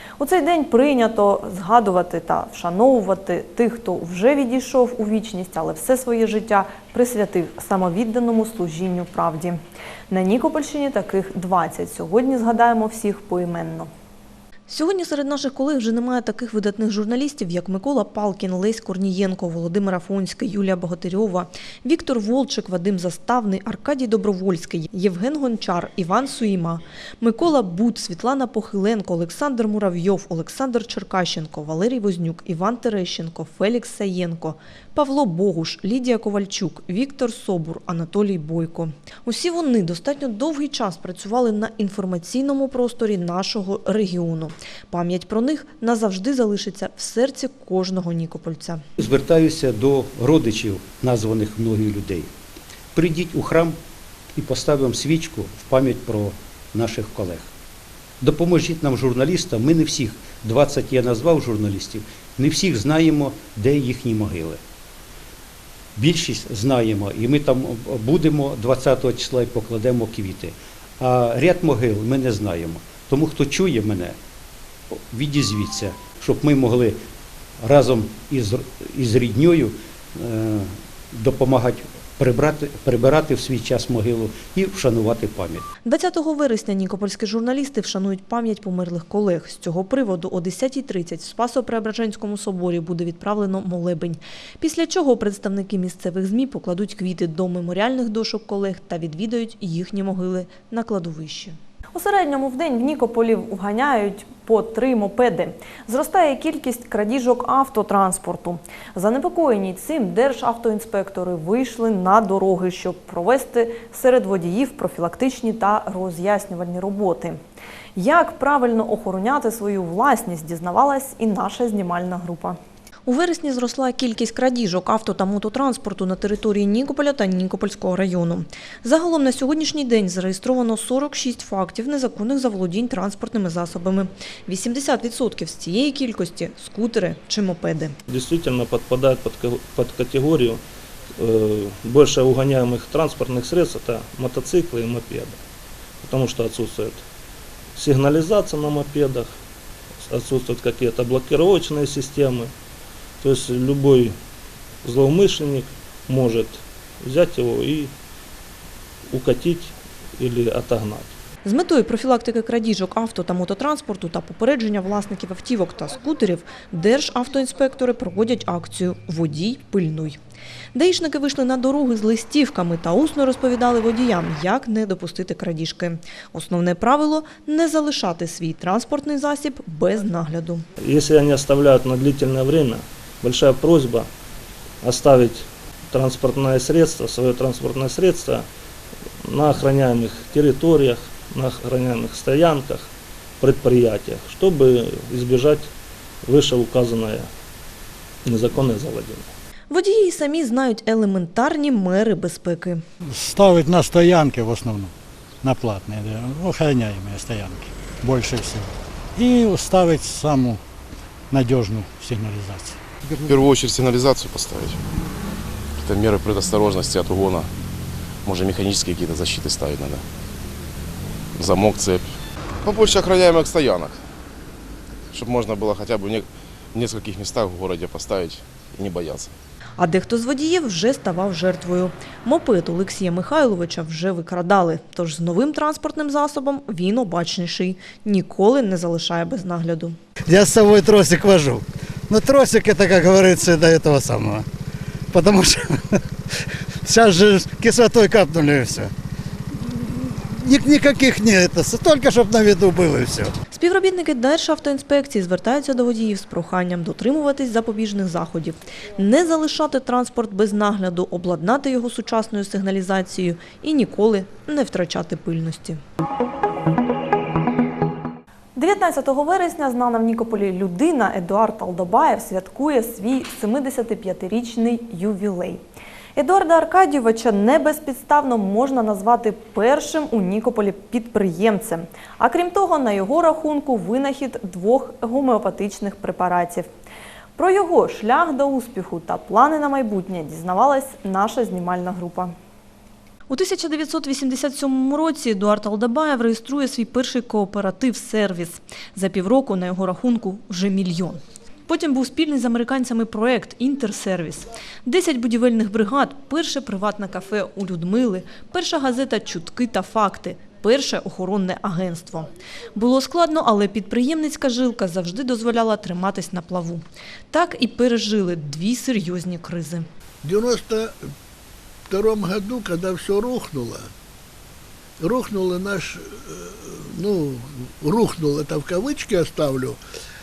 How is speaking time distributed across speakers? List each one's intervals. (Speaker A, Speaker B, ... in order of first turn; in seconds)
Speaker A: 0.2-13.9, 14.7-48.8, 85.8-117.4, 117.9-138.0, 161.4-170.2, 170.7-180.6, 199.7-202.8, 229.8-239.9, 253.5-265.8, 268.5-275.6, 276.1-286.7, 287.4-292.3, 293.3-319.9
Speaker B: 49.0-52.3, 52.9-53.8, 54.4-57.5, 58.2-64.6, 66.0-74.2, 74.9-77.0, 77.6-85.6
Speaker C: 138.1-140.6, 141.2-145.4, 146.0-147.0, 147.8-149.3, 150.0-152.5, 153.2-154.2, 154.8-157.9, 159.1-161.1, 180.8-184.1, 184.8-188.4, 189.2-192.9, 193.4-195.7, 196.2-197.3, 198.2-199.3
Speaker D: 203.1-204.9, 205.4-210.6, 211.3-212.8
Speaker E: 213.3-214.8, 215.8-217.5, 218.2-220.0, 221.3-222.1, 222.6-224.0, 225.1-229.3
Speaker F: 240.3-244.4, 245.1-245.8, 246.8-248.9, 250.4-253.3
Speaker G: 320.2-321.0, 321.9-323.9, 325.0-329.8